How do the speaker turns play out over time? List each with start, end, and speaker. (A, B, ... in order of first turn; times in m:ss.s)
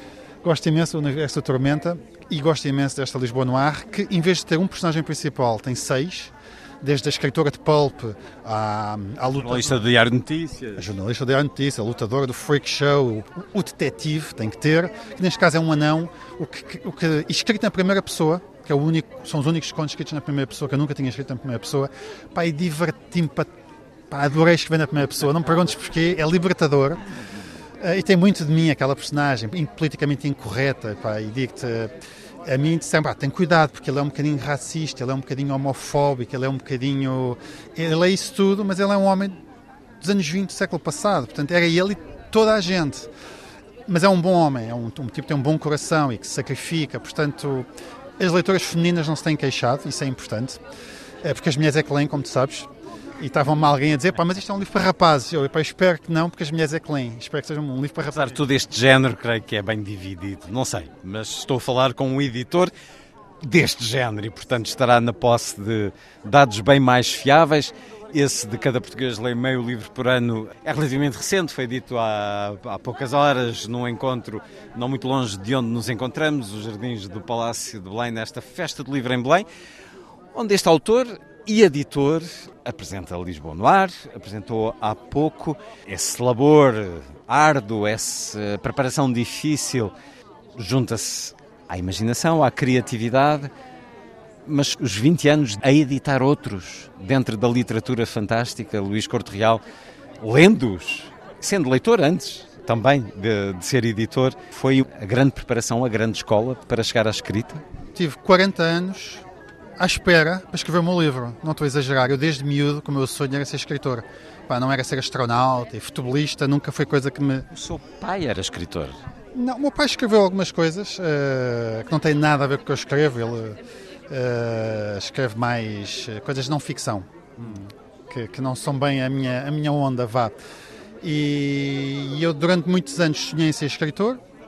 0:00.4-0:09.8 A
0:09.3-0:10.9 B
0:10.8-0:23.5 A
0:24.1-0:27.0 A
0:27.8-0:31.9 A
0:32.4-0:39.4 A
0:40.0-0:43.1 A
0:43.9-0:47.7 A
0:48.2-0:50.6 A
0:51.2-0:58.4 A
0:58.1-1:02.7 B
1:03.4-1:19.5 B
1:20.3-1:29.9 B
1:30.6-1:33.5 B
1:34.4-1:39.6 B
1:40.2-1:47.6 B
1:47.9-1:49.2 A
1:49.8-1:57.4 A
1:57.5-1:59.0 B
1:59.3-2:03.6 A
2:04.1-2:10.3 A
2:11.0-2:14.2 A